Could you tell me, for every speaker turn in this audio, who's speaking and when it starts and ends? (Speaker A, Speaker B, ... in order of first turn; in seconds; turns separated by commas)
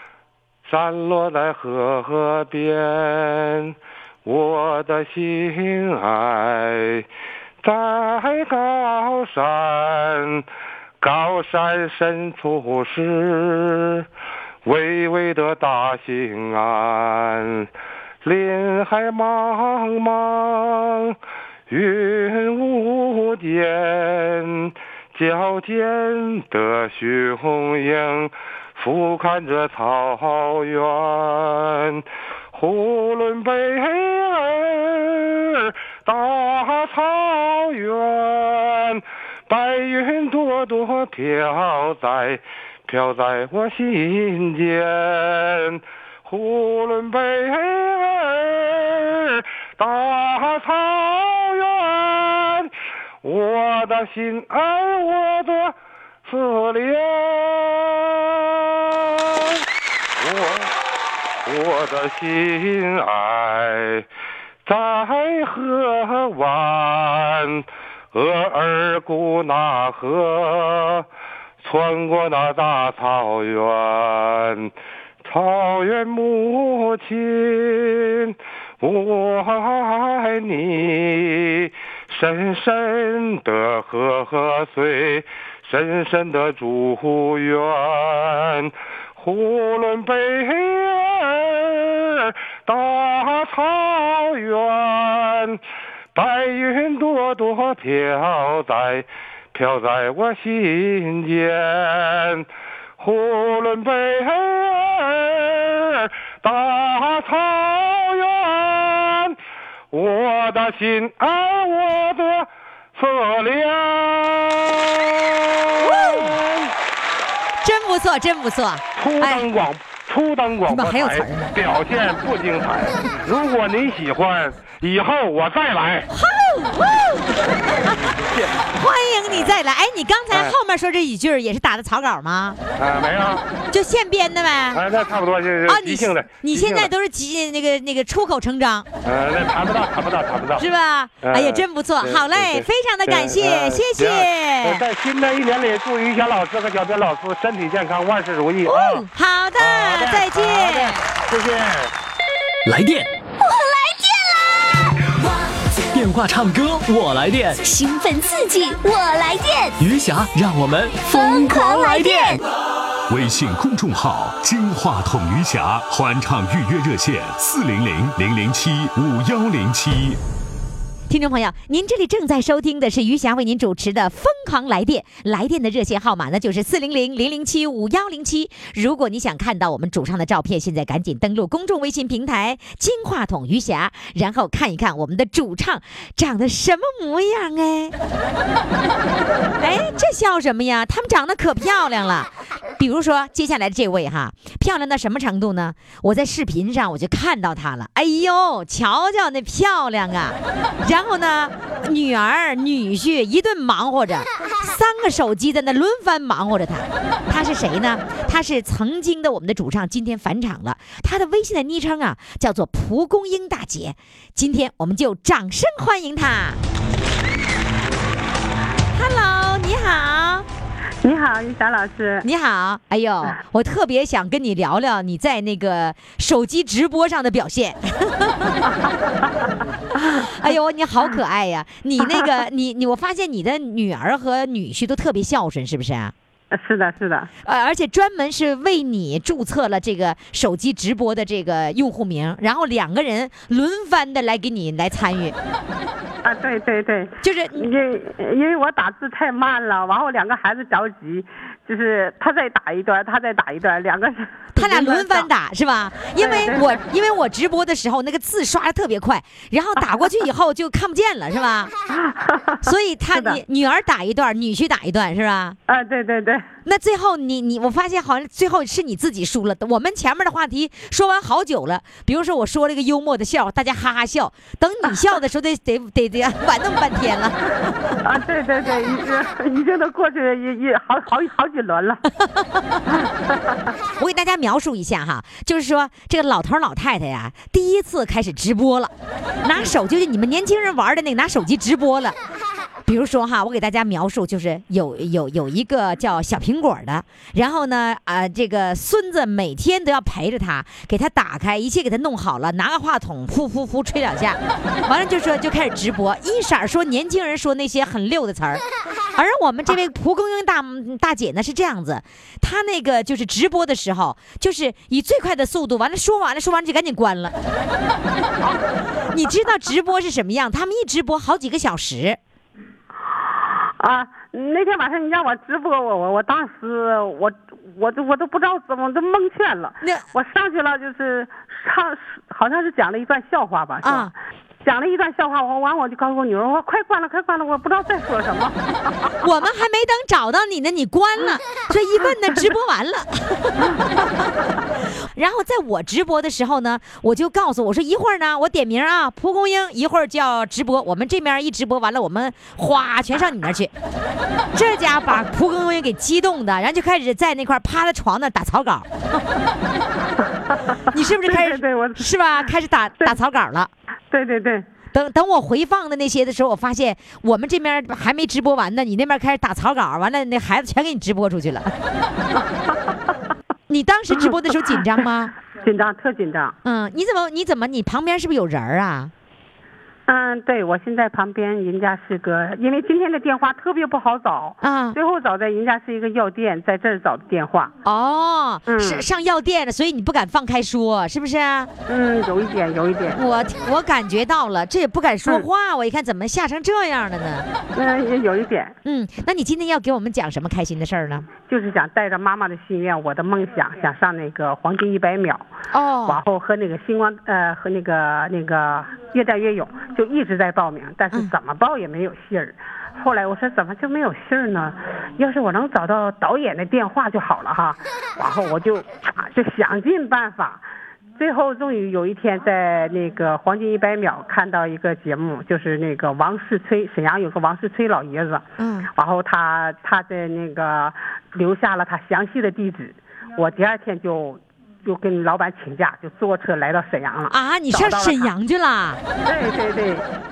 Speaker A: 0.7-7.0, Speaker A: 7.6-10.4, Speaker A: 11.0-14.1, Speaker A: 14.6-17.7, Speaker A: 18.2-21.1, Speaker A: 21.7-55.7, Speaker A: 56.2-59.6, Speaker A: 60.2-60.7, Speaker A: 61.5-64.0, Speaker A: 64.7-71.0, Speaker A: 71.6-74.7, Speaker A: 75.2-95.6, Speaker A: 96.1-102.5, Speaker A: 103.0-109.4, Speaker A: 109.9-116.7, Speaker B: 115.8-116.4, Speaker B: 117.6-119.5, Speaker A: 119.0-126.1, Speaker B: 120.7-121.5, Speaker B: 126.1-132.6, Speaker A: 129.3-129.6, Speaker A: 130.3-130.6, Speaker A: 132.8-133.4, Speaker B: 133.7-134.8, Speaker A: 134.7-136.9, Speaker B: 135.7-138.9, Speaker A: 139.0-140.7, Speaker B: 140.6-144.8, Speaker A: 141.2-149.1, Speaker B: 148.7-151.0, Speaker A: 149.6-151.9, Speaker C: 152.6-153.1, Speaker D: 153.4-154.6, Speaker C: 155.9-157.6, Speaker D: 157.6-159.8, Speaker C: 159.8-162.4, Speaker D: 161.0-162.4, Speaker E: 163.1-170.2, Speaker B: 171.1-187.9, Speaker B: 189.6-216.6, Speaker B: 218.9-220.4, Speaker F: 221.0-222.3, Speaker B: 222.2-228.6, Speaker F: 228.6-229.5, Speaker B: 229.9-236.1, Speaker F: 236.5-237.3, Speaker B: 237.4-245.3, Speaker F: 246.2-255.3, Speaker B: 247.2-247.7, Speaker B: 254.5-261.7, Speaker F: 256.2-256.8, Speaker F: 261.9-263.4, Speaker B: 262.6-265.6, Speaker F: 265.7-266.4, Speaker B: 266.6-277.7, Speaker F: 278.0-282.0, Speaker B: 282.2-282.8, Speaker F: 282.9-283.6, Speaker B: 284.0-288.9, Speaker B: 289.4-292.1, Speaker B: 292.9-308.6, Speaker B: 309.1-317.3, Speaker B: 319.1-322.2, Speaker F: 323.8-334.1, Speaker B: 333.8-334.1, Speaker F: 334.6-339.1, Speaker B: 339.2-344.2, Speaker B: 345.1-353.7, Speaker B: 354.5-358.9, Speaker F: 360.2-362.1, Speaker B: 360.9-363.7, Speaker F: 364.1-364.7, Speaker B: 364.9-371.7, Speaker B: 373.7-375.3, Speaker F: 375.6-376.6, Speaker B: 376.6-379.1, Speaker F: 380.1-387.7, Speaker B: 384.6-385.0, Speaker B: 387.8-391.7, Speaker F: 388.7-389.1, Speaker F: 391.9-393.2, Speaker B: 393.1-397.5, Speaker F: 397.7-398.7, Speaker B: 398.8-401.3, Speaker F: 401.4-405.4, Speaker B: 405.7-406.2, Speaker F: 406.1-420.6, Speaker F: 421.2-438.3, Speaker B: 428.6-428.9, Speaker B: 437.3-439.0, Speaker F: 439.2-440.1